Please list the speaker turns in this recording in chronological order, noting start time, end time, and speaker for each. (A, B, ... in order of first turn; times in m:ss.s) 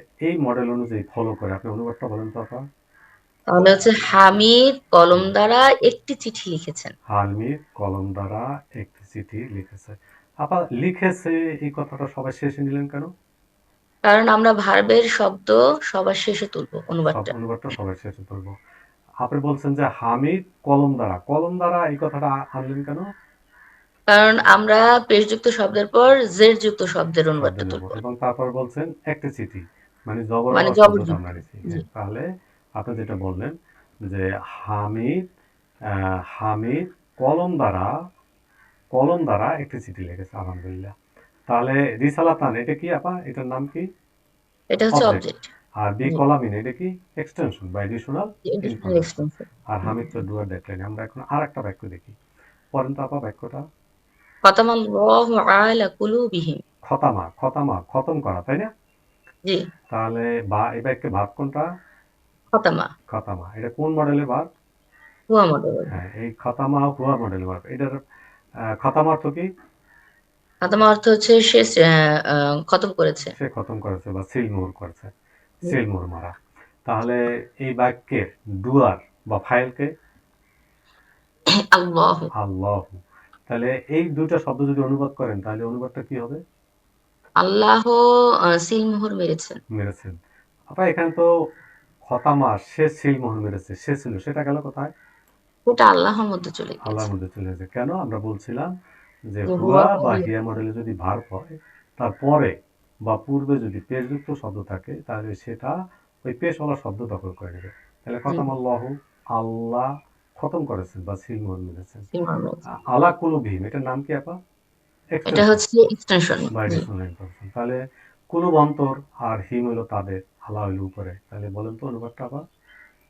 0:00.2-0:02.6 A
0:03.5-0:06.9 B
0:03.6-0:03.9 A
0:07.1-0:13.1 A
0:14.1-0:17.3 B
0:17.1-0:18.5 A
0:19.2-0:23.0 A
0:24.1-0:28.0 B
0:27.4-0:32.2 A
0:30.5-0:31.8 B
0:32.8-0:33.5 A
0:34.0-0:35.2 A
0:35.9-0:37.9 A
0:38.9-0:40.9 A
0:41.5-0:43.8 A
0:44.7-0:45.5 B
0:44.9-0:45.2 A
0:45.8-0:49.1 A
0:48.5-0:50.2 B
0:49.7-0:52.1 A
0:52.7-0:53.6 A
0:54.4-0:56.6 B
0:56.8-0:58.7 A
0:59.9-1:01.6 A
1:02.5-1:02.9 B
1:03.1-1:04.4 A
1:05.3-1:05.9 B
1:05.9-1:07.9 A
1:08.8-1:09.5 A
1:10.6-1:13.3 B
1:13.3-1:16.3 A
1:16.8-1:19.9 A
1:21.6-1:22.3 B
1:22.4-1:26.4 A
1:27.4-1:28.0 B
1:28.6-1:29.6 B
1:29.8-1:30.2 A
1:30.7-1:31.2 A
1:32.1-1:34.9 A
1:35.6-1:37.1 B
1:36.8-1:38.7 A
1:39.3-1:41.5 A
1:39.5-1:40.3 B
1:42.0-1:42.5 A
1:43.1-1:45.7 A
1:46.2-1:49.9 A
1:50.4-1:52.1 A
1:52.1-1:52.6 B
1:52.8-1:54.4 A
1:55.1-1:55.6 A
1:55.3-1:56.8 B
1:56.5-1:57.8 A
1:58.3-2:02.4 A